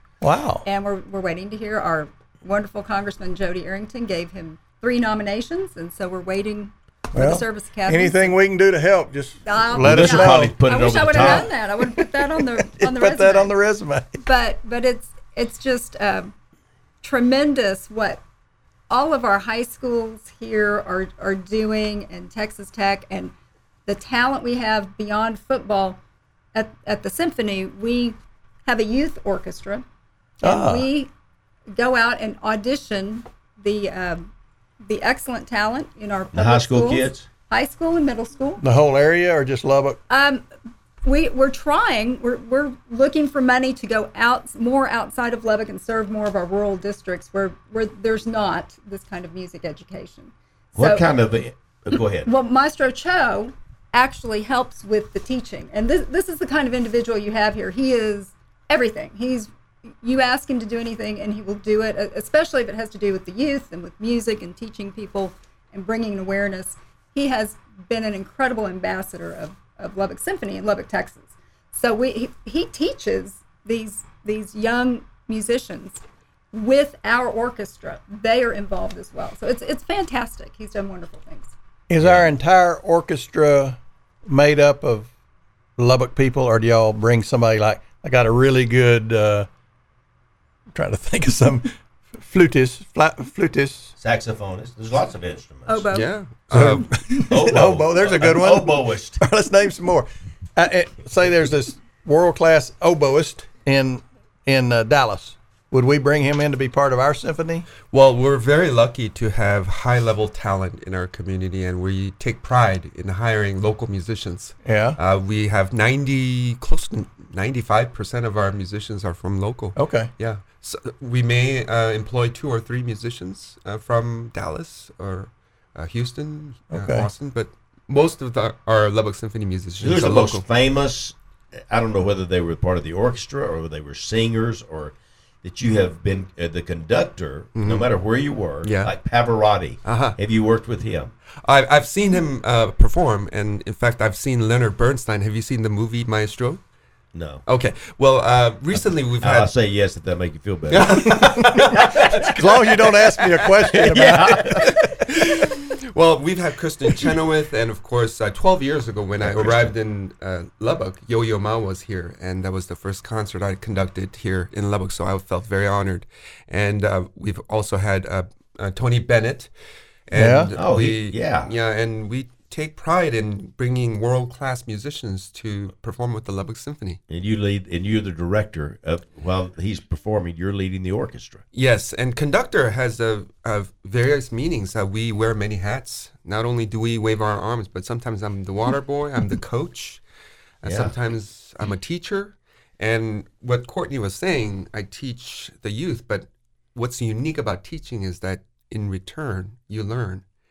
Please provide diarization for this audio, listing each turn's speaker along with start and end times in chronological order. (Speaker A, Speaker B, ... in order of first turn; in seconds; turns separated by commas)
Speaker A: 0.2-0.7, Speaker B: 0.7-8.4, Speaker A: 7.2-12.1, Speaker B: 9.5-13.6, Speaker C: 9.7-11.5, Speaker A: 12.7-14.2, Speaker B: 14.2-16.3, Speaker B: 17.0-18.2, Speaker B: 18.9-23.3, Speaker B: 23.9-26.0, Speaker B: 26.6-29.8, Speaker B: 30.4-31.1, Speaker A: 30.4-30.9, Speaker B: 31.7-34.3, Speaker B: 34.9-38.6, Speaker C: 36.3-37.3, Speaker A: 38.6-40.0, Speaker B: 40.1-40.5, Speaker B: 41.0-51.1, Speaker C: 50.8-52.3, Speaker B: 52.3-59.5, Speaker B: 60.0-76.0, Speaker B: 76.5-81.5, Speaker A: 81.9-85.1, Speaker C: 82.0-82.3, Speaker A: 85.8-89.5, Speaker A: 90.7-93.9, Speaker C: 94.0-95.8, Speaker B: 95.7-96.1, Speaker D: 95.9-96.9, Speaker A: 96.5-107.7, Speaker C: 97.2-99.2, Speaker D: 107.9-130.5, Speaker A: 114.7-115.0, Speaker A: 119.8-120.1, Speaker A: 126.7-127.1, Speaker C: 129.8-141.1, Speaker D: 137.6-137.9, Speaker D: 138.6-138.9, Speaker D: 139.8-140.2, Speaker D: 141.4-146.6, Speaker C: 147.1-147.4, Speaker D: 147.5-149.5, Speaker C: 148.8-152.2, Speaker D: 150.7-153.7, Speaker A: 151.1-154.7, Speaker C: 153.7-154.8, Speaker D: 154.5-169.5, Speaker C: 159.2-159.7, Speaker D: 170.1-177.0, Speaker A: 170.1-170.5, Speaker C: 170.5-171.5, Speaker C: 177.1-181.4, Speaker D: 181.5-190.0, Speaker D: 190.6-200.2, Speaker C: 190.7-190.9